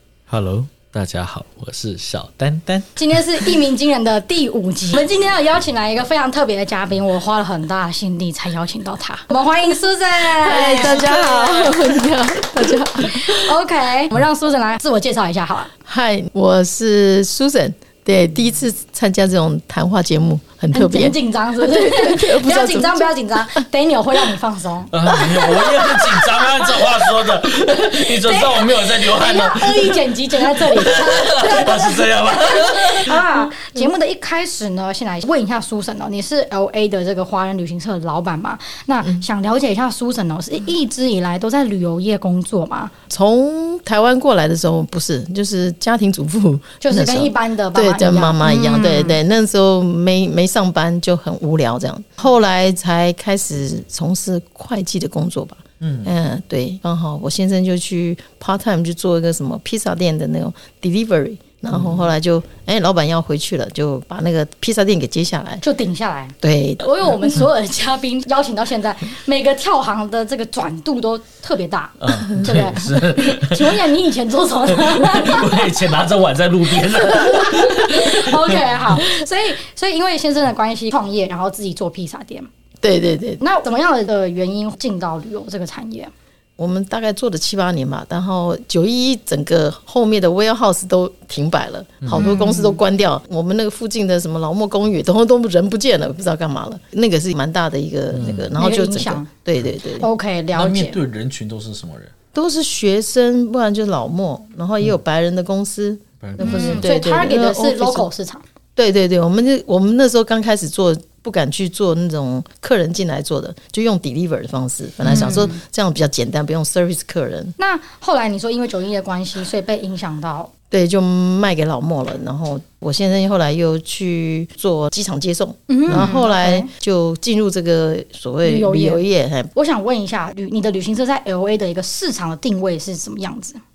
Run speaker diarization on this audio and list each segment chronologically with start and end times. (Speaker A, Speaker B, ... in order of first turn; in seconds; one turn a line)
Speaker A: 0.3-3.5
Speaker B: 3.0-12.0
Speaker C: 10.3-13.5
Speaker B: 13.0-15.7
Speaker C: 15.9-23.6
Speaker B: 20.7-42.9
Speaker A: 24.9-33.2
Speaker C: 43.1-65.6
Speaker B: 46.8-49.2
Speaker A: 55.8-56.1
Speaker A: 61.7-62.0
Speaker B: 65.6-75.7
Speaker C: 66.4-66.8
Speaker A: 72.0-73.8
Speaker A: 74.8-78.6
Speaker B: 77.1-82.5
Speaker C: 82.8-83.4
Speaker B: 83.4-86.1
Speaker C: 86.6-100.1
Speaker A: 92.0-92.3
Speaker B: 92.1-92.8
Speaker A: 98.2-98.5
Speaker B: 98.5-99.3
Speaker B: 100.0-101.0
Speaker A: 100.5-102.1
Speaker C: 102.3-108.1
Speaker A: 106.2-106.8
Speaker B: 106.4-108.4
Speaker C: 108.8-117.5
Speaker B: 115.1-115.6
Speaker B: 117.6-120.5
Speaker C: 120.7-129.5
Speaker B: 125.7-126.7
Speaker B: 128.4-129.0
Speaker B: 129.5-133.6